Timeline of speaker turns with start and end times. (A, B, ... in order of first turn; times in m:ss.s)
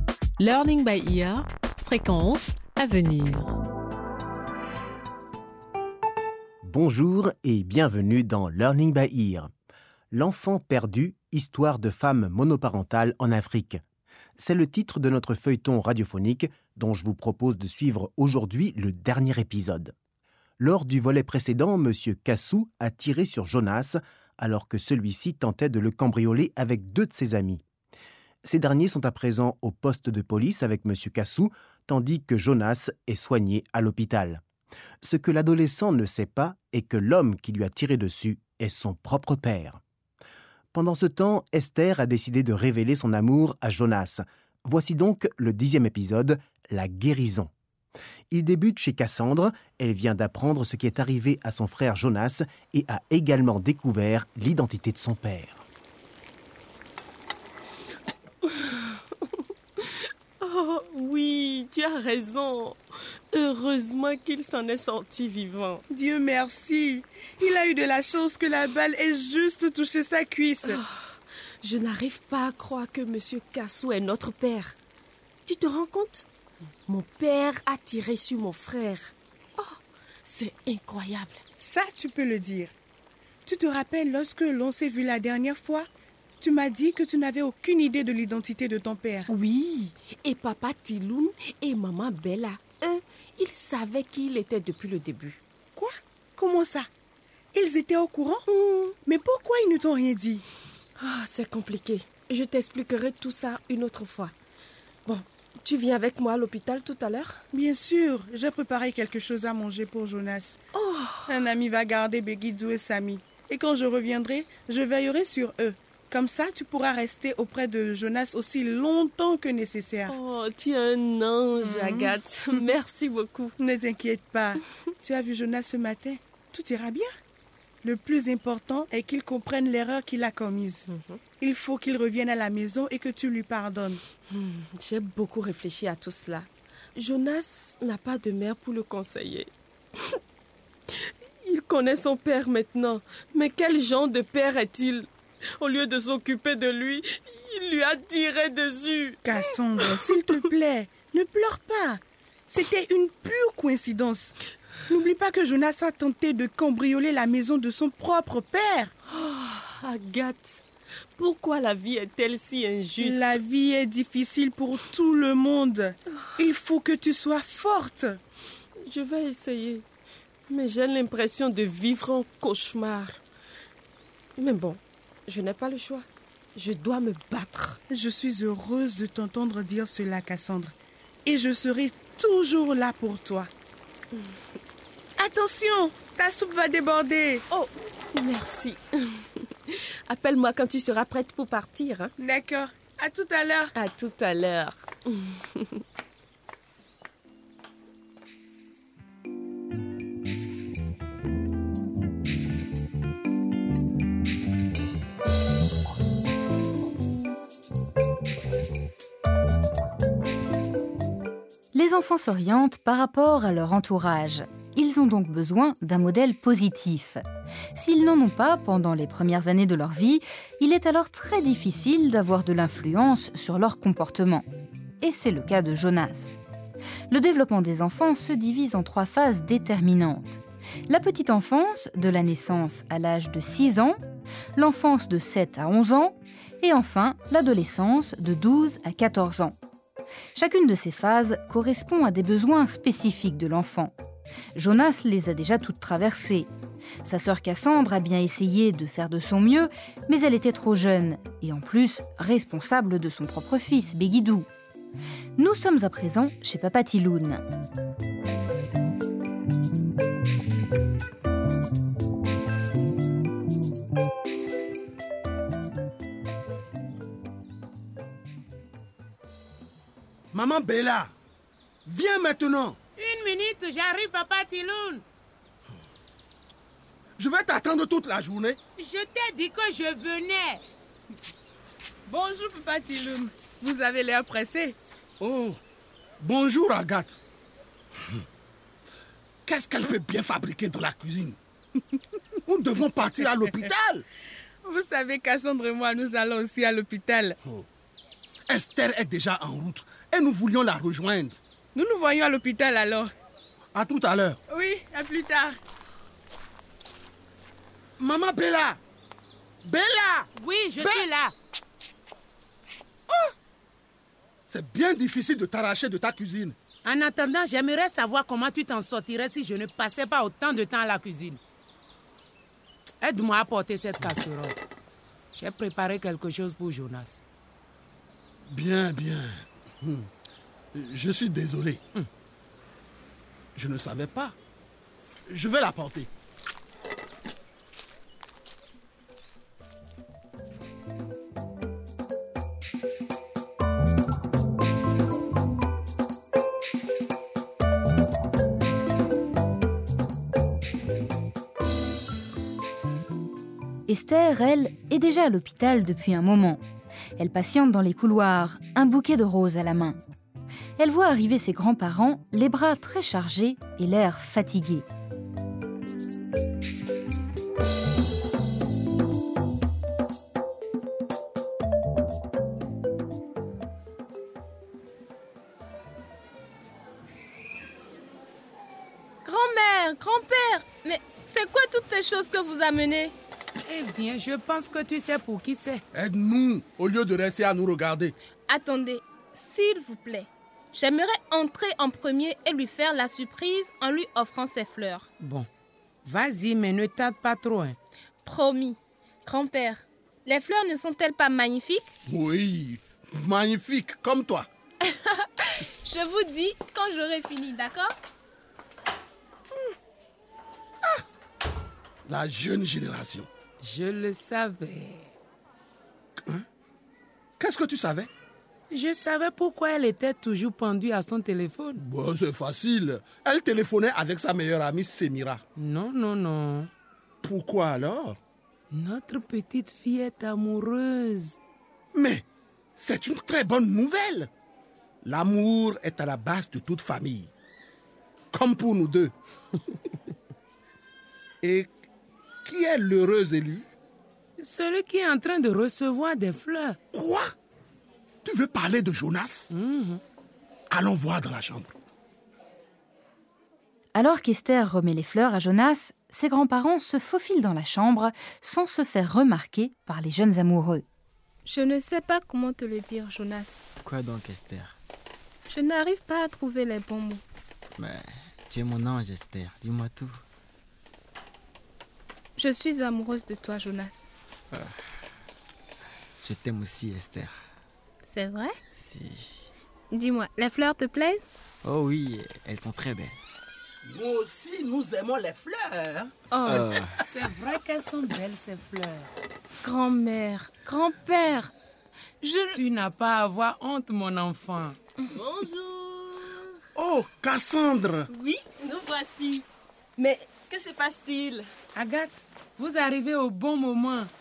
0:00.4-0:03.5 A
0:06.6-0:09.5 B
0:10.1-0:13.8 B
0:14.4-0:19.9 B
0:20.6-0:27.6 B
0:28.4-0:34.4 B
0:35.0-0:39.8 B
0:40.7-0:47.5 B
0:48.3-0:55.6 B
0:59.8-1:02.8 C
1:03.3-1:05.8 C
1:05.9-1:10.8 D
1:10.6-1:14.8 C
1:15.4-1:16.3 C
1:16.9-1:21.4 C
1:21.6-1:22.7 D
1:23.4-1:25.9 D
1:26.4-1:29.3 D
1:29.3-1:35.4 C
1:35.8-1:36.9 D
1:37.5-1:38.4 D
1:38.5-1:39.0 C
1:39.0-1:40.4 D
1:41.0-1:44.3 C
1:45.1-1:47.4 C
1:47.5-1:50.6 D
1:50.8-1:51.5 C
1:51.3-2:00.1 D
2:00.1-2:03.6 C
2:01.6-2:02.2 D
2:03.6-2:07.1 D
2:07.8-2:10.8 D
2:10.9-2:11.2 C
2:11.4-2:14.0 D
2:14.3-2:19.5 C
2:21.0-2:29.3 C
2:29.2-2:34.3 D
2:29.8-2:30.1 C
2:34.9-2:38.9 D
2:39.1-2:40.6 C
2:41.2-2:43.4 C
2:43.0-2:48.2 D
2:48.9-2:49.8 C
2:50.5-2:53.2 C
2:54.4-2:57.8 C
2:57.9-3:00.7 D
3:01.2-3:03.5 D
3:05.2-3:07.4 D
3:07.5-3:12.1 C
3:12.2-3:13.7 D
3:13.7-3:15.7 C
3:31.7-3:37.2 E
3:37.8-3:44.5 E
3:45.0-3:46.4 E
3:47.1-3:54.0 E
3:54.6-3:59.6 E
4:00.3-4:03.9 E
4:04.6-4:06.5 E
4:07.0-4:14.5 E
4:15.4-4:17.4 E
4:30.3-4:31.1 F
4:31.8-4:32.8 F
4:33.0-4:35.0 G
4:37.2-4:38.6 F
4:38.8-4:40.6 G
4:42.1-4:44.8 D
4:45.2-4:45.6 F
4:46.2-4:47.2 F
4:49.4-4:51.4 F
4:52.5-4:54.0 F
4:54.6-4:57.4 D
4:58.5-5:01.4 F
5:01.7-5:03.1 D
5:03.7-5:04.4 F
5:04.5-5:05.6 D
5:08.0-5:08.8 F
5:09.6-5:11.1 F
5:10.4-5:11.3 G
5:14.5-5:16.6 F
5:16.8-5:21.4 G
5:23.0-5:24.6 G
5:25.3-5:27.2 G
5:28.4-5:30.1 F
5:30.7-5:31.8 F
5:33.5-5:34.4 F
5:35.3-5:36.1 F
5:53.9-5:56.6 E
5:57.2-6:00.0 E
6:00.8-6:04.9 E
6:19.2-6:23.1 H
6:23.6-6:25.8 G
6:25.9-6:28.2 F
6:28.5-6:35.1 H
6:35.2-6:35.5 G
6:36.0-6:37.8 G
6:38.2-6:41.9 H
6:42.1-6:44.5 F
6:44.9-6:47.9 H
6:52.1-6:53.3 F
6:53.6-6:55.1 G
6:57.4-6:58.1 F
6:58.7-7:01.8 G
7:01.8-7:05.4 F
7:05.6-7:06.7 G
7:07.2-7:08.2 F
7:08.7-7:11.4 G
7:11.9-7:12.2 F
7:12.8-7:14.3 F
7:15.0-7:17.3 F
7:18.3-7:19.1 F
7:21.4-7:21.8 F
7:22.4-7:23.7 F
7:24.4-7:26.8 G
7:26.9-7:27.3 F
7:28.2-7:29.5 F
7:29.5-7:30.0 G
7:30.7-7:31.7 F
7:33.9-7:40.8 E
7:41.4-7:43.6 H
7:43.8-7:44.8 I
7:45.5-7:47.2 H
7:47.8-7:50.2 I
7:52.4-7:54.1 H
7:56.2-7:57.3 I
7:58.0-7:58.6 H
7:58.8-7:59.3 I
7:59.9-8:01.2 H
8:01.6-8:03.1 I
8:03.8-8:06.1 F
8:06.3-8:06.7 H
8:06.4-8:07.0 I
8:07.1-8:09.1 G
8:09.6-8:11.5 H
8:12.2-8:12.6 H
8:12.5-8:14.8 G
8:15.1-8:16.5 C
8:16.8-8:18.1 F
8:18.1-8:19.4 C
8:20.0-8:21.4 C
8:21.8-8:24.1 G